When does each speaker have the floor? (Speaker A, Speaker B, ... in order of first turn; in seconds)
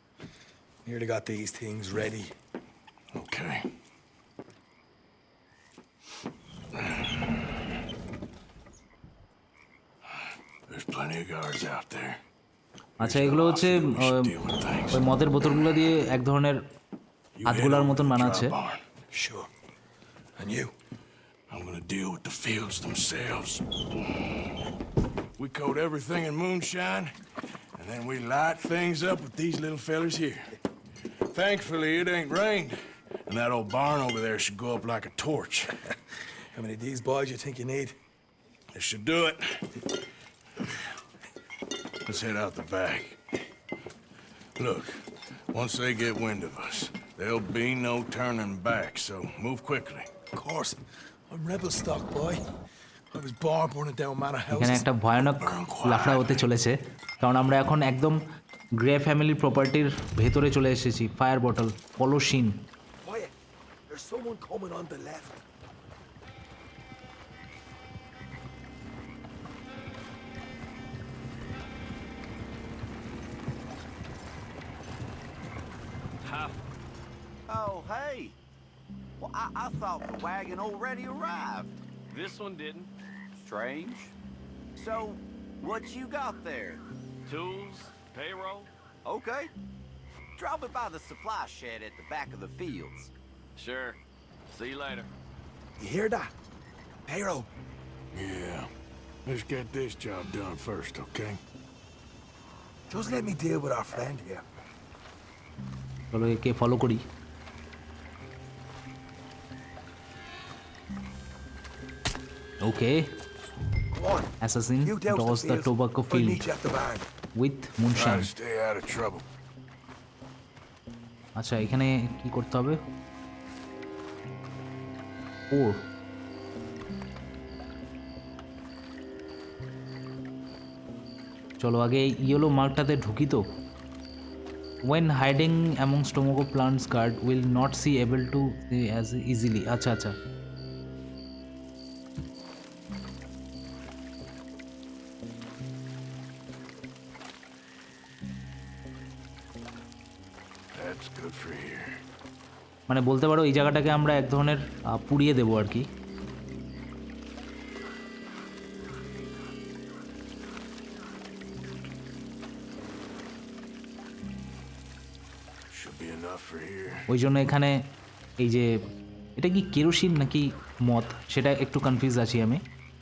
Speaker A: 0.8-2.3, 19.1-19.5, 20.4-20.7, 36.5-38.0, 50.3-52.4, 53.1-54.9, 63.0-63.3, 63.9-65.4, 95.8-96.3, 97.1-97.5, 102.9-104.4, 113.9-114.3, 114.8-117.1
Speaker B: 3.1-3.6, 10.7-12.2, 13.0-15.0, 17.4-18.8, 21.5-23.6, 25.4-27.1, 27.8-30.5, 31.3-35.7, 38.7-39.7, 42.0-43.2, 44.6-45.0, 45.5-50.1, 55.2-56.4, 98.1-98.7, 99.2-101.4, 117.9-119.2, 150.7-152.0, 165.7-167.0
Speaker C: 13.0-14.3, 14.9-16.6, 17.4-18.5, 54.5-58.2, 58.8-62.6, 106.1-107.0, 112.6-113.1, 114.4-116.5, 117.4-118.3, 121.4-122.8, 125.5-125.8, 131.6-133.4, 134.9-140.2, 152.9-155.9, 167.1-167.8, 168.4-168.7, 169.4-172.6
Speaker D: 76.2-76.5, 82.1-82.9, 87.2-88.7, 93.6-94.0, 94.5-95.1
Speaker E: 77.5-78.3, 79.2-81.8, 83.3-84.1, 84.8-86.8, 89.0-89.5, 90.3-93.1